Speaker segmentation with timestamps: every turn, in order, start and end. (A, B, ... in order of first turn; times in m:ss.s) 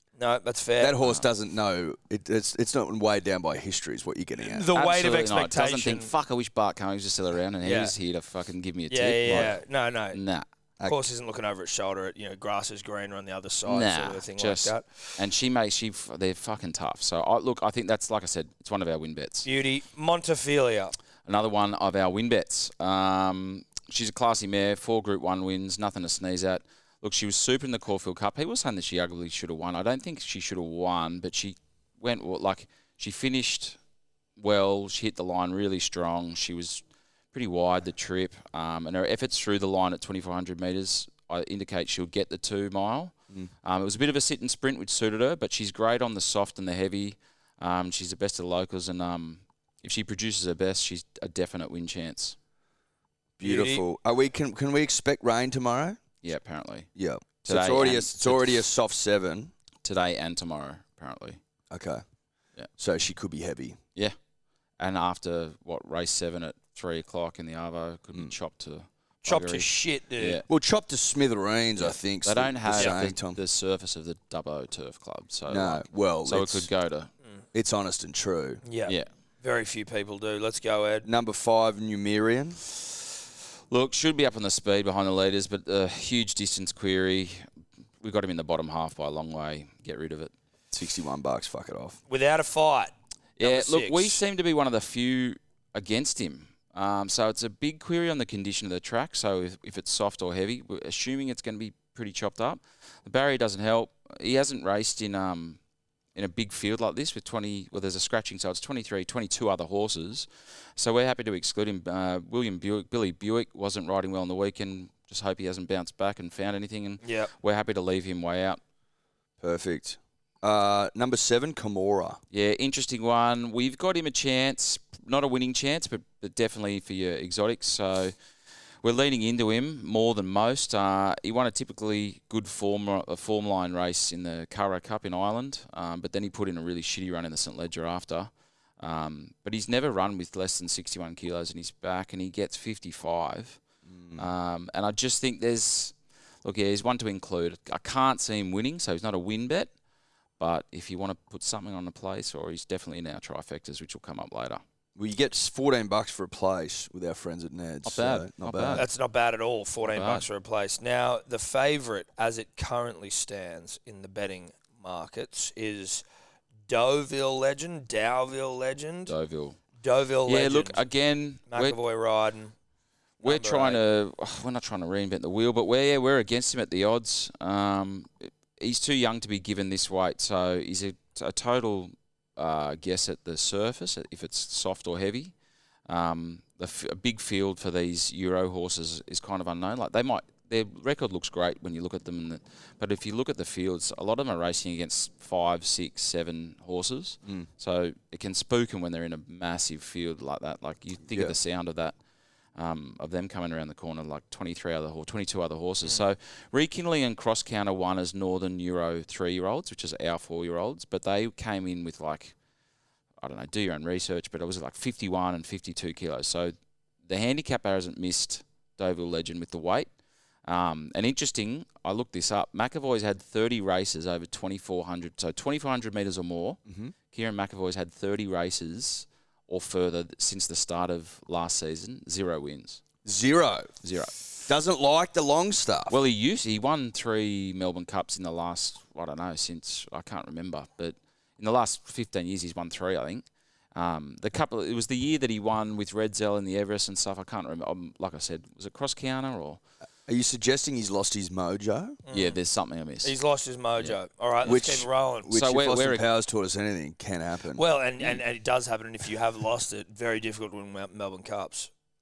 0:00.2-0:01.0 A
0:00.8-0:04.7 B
0:04.4-0:06.1 A
0:04.7-0:09.6 C
0:07.6-0:07.9 A
0:08.9-0:10.2 A
0:10.1-0:10.5 C
0:10.8-0:15.2 A
0:13.6-0:19.5 C
0:19.4-0:20.9 A
0:21.2-0:33.8 C
0:34.4-0:52.4 C
0:53.4-0:56.0 B
0:53.4-0:53.8 A
0:56.2-0:56.9 C
0:57.0-0:59.5 B
0:57.4-0:58.6 C
0:59.8-1:01.4 C
1:01.7-1:02.0 B
1:02.8-1:03.8 B
1:04.8-1:10.4 C
1:09.2-1:10.4 A
1:10.5-1:13.4 B
1:11.8-1:17.1 C
1:15.5-1:16.7 B
1:17.5-1:18.6 B
1:18.6-1:21.1 A
1:21.0-1:22.6 B
1:23.7-1:27.4 C
1:28.0-1:30.3 C
1:30.7-1:32.0 B
1:32.1-1:34.2 A
1:33.4-1:45.6 C
1:46.1-1:58.6 C
1:57.0-1:57.3 A
1:59.4-2:02.2 B
2:02.3-2:08.1 C
2:08.8-2:23.6 C
2:23.8-2:24.2 B
2:24.2-2:29.7 C
2:30.4-2:34.6 C
2:35.0-2:38.8 B
2:37.8-2:38.9 C
2:38.7-2:46.0 A
2:39.8-2:40.2 C
2:46.7-2:49.1 A
2:49.1-2:49.6 C
2:49.8-2:50.8 A
2:50.3-2:51.8 C
2:51.5-2:52.5 A
2:53.2-3:05.3 C
2:53.2-2:53.8 A
3:05.9-3:21.9 C
3:22.6-3:32.3 C
3:33.2-3:36.5 C
3:37.0-3:39.9 C
3:40.4-3:46.6 C
3:46.7-3:46.9 B
3:47.1-3:52.8 C
3:53.0-3:53.8 B
3:53.8-3:54.2 C
3:54.5-3:56.0 B
3:55.9-4:03.2 C
4:03.7-4:09.6 C
4:10.1-4:12.0 B
4:12.1-4:12.4 A
4:12.1-4:13.1 C
4:13.0-4:15.3 A
4:14.4-4:17.6 B
4:15.3-4:16.0 C
4:17.5-4:21.7 A